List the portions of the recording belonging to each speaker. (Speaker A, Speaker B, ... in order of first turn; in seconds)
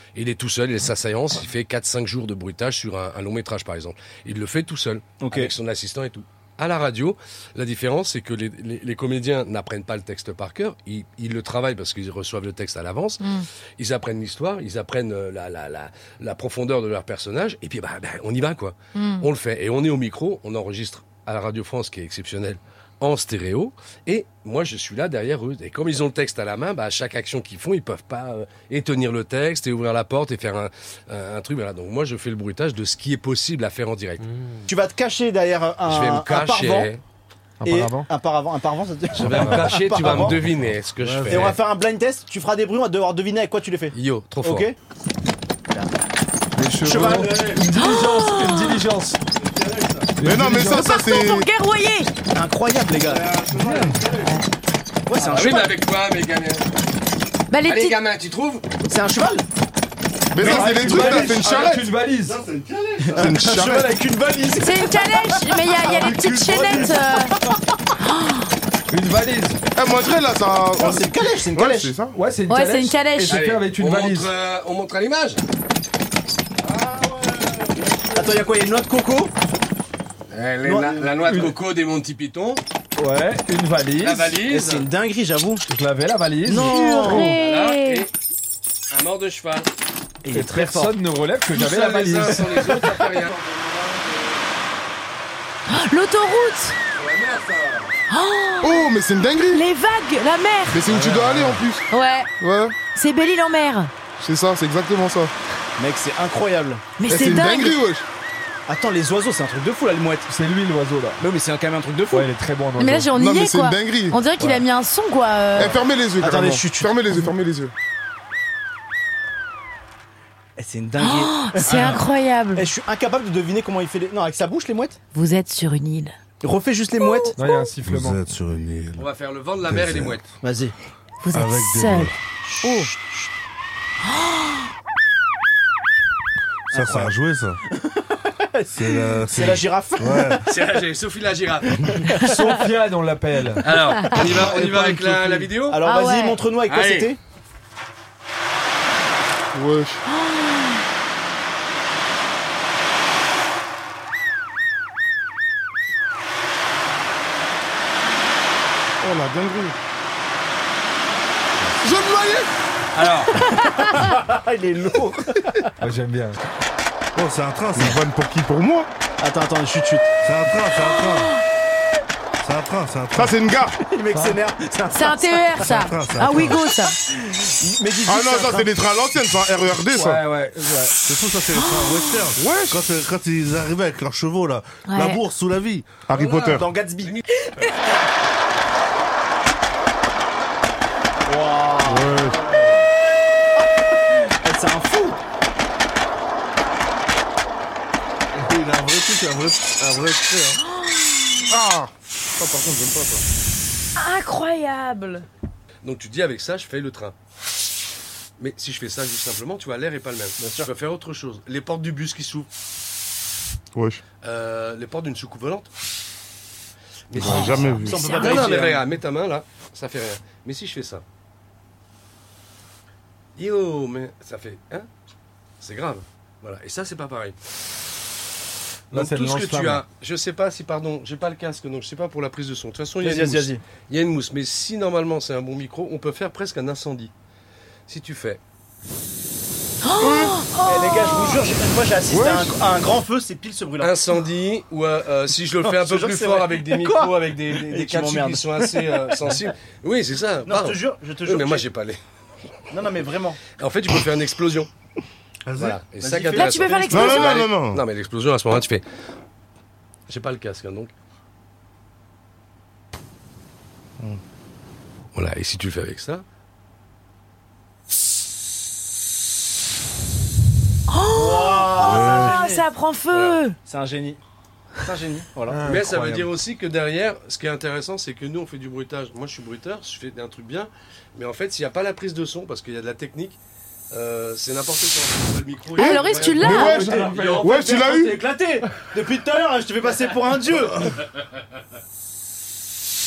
Speaker A: 0.1-13.2, 13.8-34.2, 35.9-37.0, 39.2-41.6, 43.9-44.7, 55.2-56.6, 57.6-58.6, 73.3-75.4, 80.3-82.6, 84.0-84.9, 87.2-88.1, 88.9-89.7, 91.5-93.4, 97.0-97.9, 121.7-122.0, 129.0-130.2, 140.4-142.1, 143.6-145.8, 146.7-147.1, 186.2-186.5, 205.8-207.2, 208.4-212.5, 214.2-215.7, 217.1-221.0, 223.4-224.9, 225.6-227.4, 228.9-237.1, 237.9-238.4, 243.8-252.0, 253.6-254.7, 255.6-258.8, 260.1-260.9, 265.1-266.2, 273.1-273.4, 275.6-283.4, 283.9-287.5
Speaker B: 5.2-5.5, 34.7-36.9, 37.6-40.4, 41.3-44.8, 46.8-47.5, 52.4-53.3, 55.1-55.7, 58.9-59.5, 60.5-61.0, 63.0-67.5, 70.8-71.9, 78.1-79.3, 80.6-81.1, 84.5-85.7, 86.5-87.3, 90.2-90.9, 100.9-101.6, 105.8-106.8, 108.7-110.3, 111.2-112.3, 116.2-117.0, 120.6-121.9, 122.5-125.0, 126.4-127.3, 130.4-130.7, 136.7-137.1, 138.4-140.4, 141.9-142.6, 144.2-145.0, 145.5-147.2, 163.9-165.7, 169.2-170.1, 173.8-175.7, 177.2-178.7, 186.4-187.2, 191.3-192.2, 194.4-195.2, 210.4-210.7, 217.2-218.8, 233.0-233.6, 240.6-244.0, 245.6-249.1, 250.5-251.7, 252.7-253.4, 256.0-257.2, 271.1-272.6, 273.7-274.2, 274.8-275.6, 286.4-290.9
Speaker C: 13.2-13.5, 18.9-19.3, 47.7-48.8, 50.6-52.1, 57.5-58.0, 64.6-67.3, 68.0-68.5, 72.5-73.4, 86.6-88.1, 95.7-96.8, 98.1-98.9, 99.5-100.8, 101.9-102.3, 102.9-103.9, 107.0-107.8, 112.8-115.8, 121.0-122.7, 125.1-126.1, 127.0-127.6, 131.2-132.1, 134.1-134.6, 145.8-146.4, 150.1-150.8, 170.8-171.3, 174.9-176.9, 181.6-182.1, 184.9-185.2, 200.7-201.3, 204.0-205.3, 218.0-218.3, 239.8-241.4, 256.4-257.4, 270.9-273.6, 285.8-286.9
Speaker D: 34.2-34.6, 40.0-40.4, 41.0-41.6, 46.9-47.7, 49.3-50.2, 53.0-54.4, 60.6-61.4, 62.1-63.5, 76.6-78.4, 127.8-129.1, 129.7-130.2, 131.3-132.2, 136.7-137.6, 138.7-140.4, 167.2-168.0, 170.2-171.3, 172.4-173.4, 175.7-176.7, 181.1-185.9, 198.3-200.6, 255.5-255.8, 271.8-272.3
Speaker E: 37.6-38.1, 46.6-49.2, 50.2-50.9, 53.5-54.0, 60.4-62.4, 68.9-69.6, 72.1-74.3, 81.2-81.5, 83.0-84.3, 85.7-87.3, 90.3-93.0, 110.3-111.2, 112.1-113.1, 127.4-128.2, 142.2-145.4, 162.9-163.3, 165.8-166.4, 179.9-181.0, 228.9-229.8, 275.5-276.3, 286.2-287.7
Speaker F: 50.2-51.5, 60.3-61.9, 63.1-63.9, 69.8-72.2, 98.6-99.6, 100.7-101.9, 102.4-102.8, 104.2-105.3, 107.1-108.1, 113.1-114.2, 115.5-117.7, 149.5-150.0, 159.0-159.8, 161.8-162.5, 167.8-168.9, 173.1-173.8, 178.1-180.2, 182.4-182.8, 186.1-186.7, 191.9-192.4, 201.5-203.2, 213.8-214.0, 217.2-218.2, 240.0-240.3, 242.1-242.4, 256.9-257.8, 285.8-288.2